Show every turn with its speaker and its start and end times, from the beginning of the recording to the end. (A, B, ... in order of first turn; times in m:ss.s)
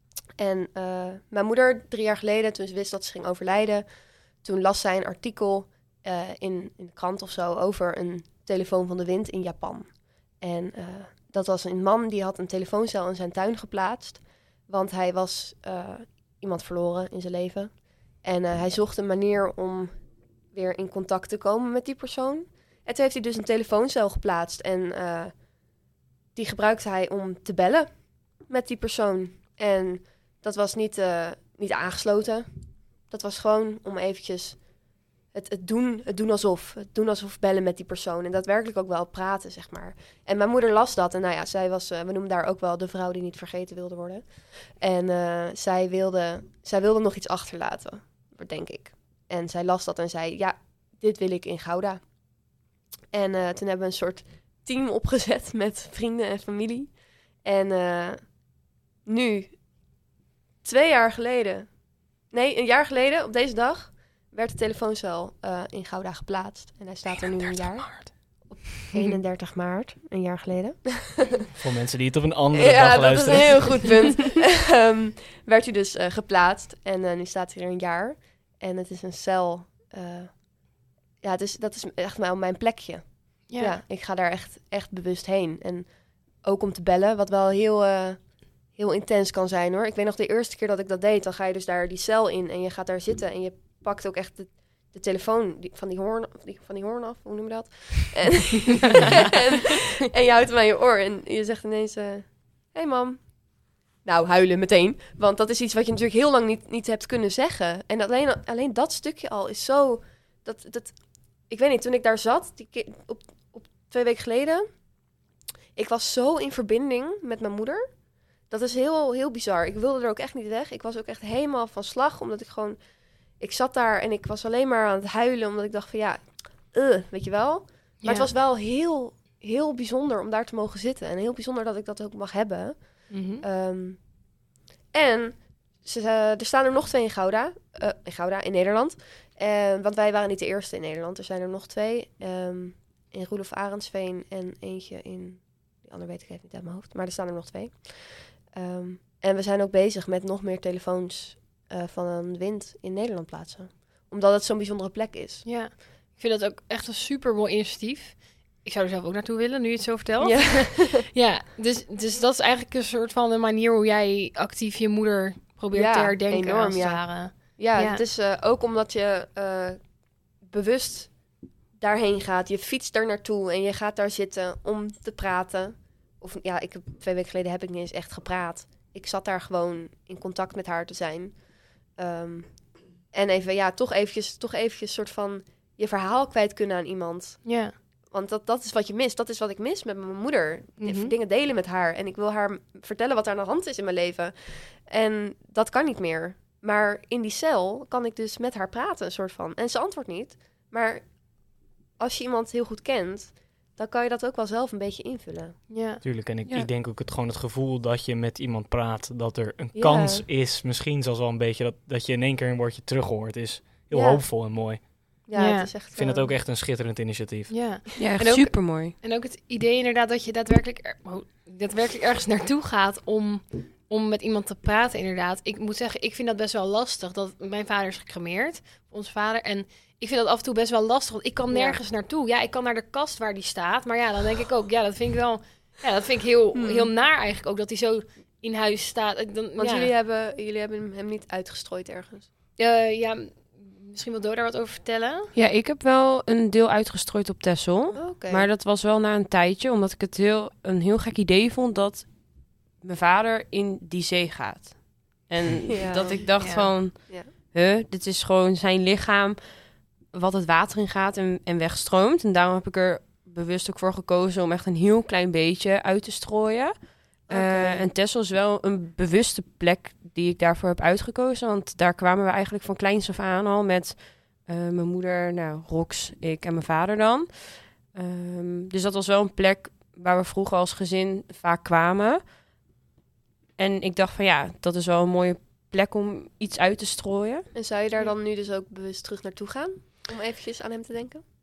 0:00.4-0:25.8 A
0:26.3-0:52.6 A
0:53.1-0:59.8 A
1:00.6-1:11.5 A
1:07.5-1:08.1 B
1:11.6-1:14.1 C
1:12.5-1:54.8 A
1:23.5-1:23.8 B
1:55.7-2:35.4 A
2:08.0-2:08.3 B
2:13.1-2:13.4 B
2:35.4-2:48.0 B
2:40.2-2:41.0 A
2:45.7-3:25.6 A
3:07.4-3:07.7 B
3:10.8-3:11.1 B
3:25.7-3:26.0 B
3:26.0-3:35.2 C
3:29.7-3:30.2 A
3:33.9-3:34.3 A
3:35.2-3:36.3 A
3:35.4-3:35.7 B
3:35.9-3:37.6 C
3:37.5-3:59.9 B
3:38.0-3:38.9 D
3:51.5-3:51.8 A
3:56.5-3:56.9 A
3:59.6-4:02.3 A
4:02.6-4:05.3 B
4:05.3-4:42.2 D
4:07.9-4:08.4 A
4:15.8-4:17.3 A
4:16.4-4:16.7 B
4:27.3-4:27.9 A
4:43.6-4:47.5 D
4:47.5-4:51.2 A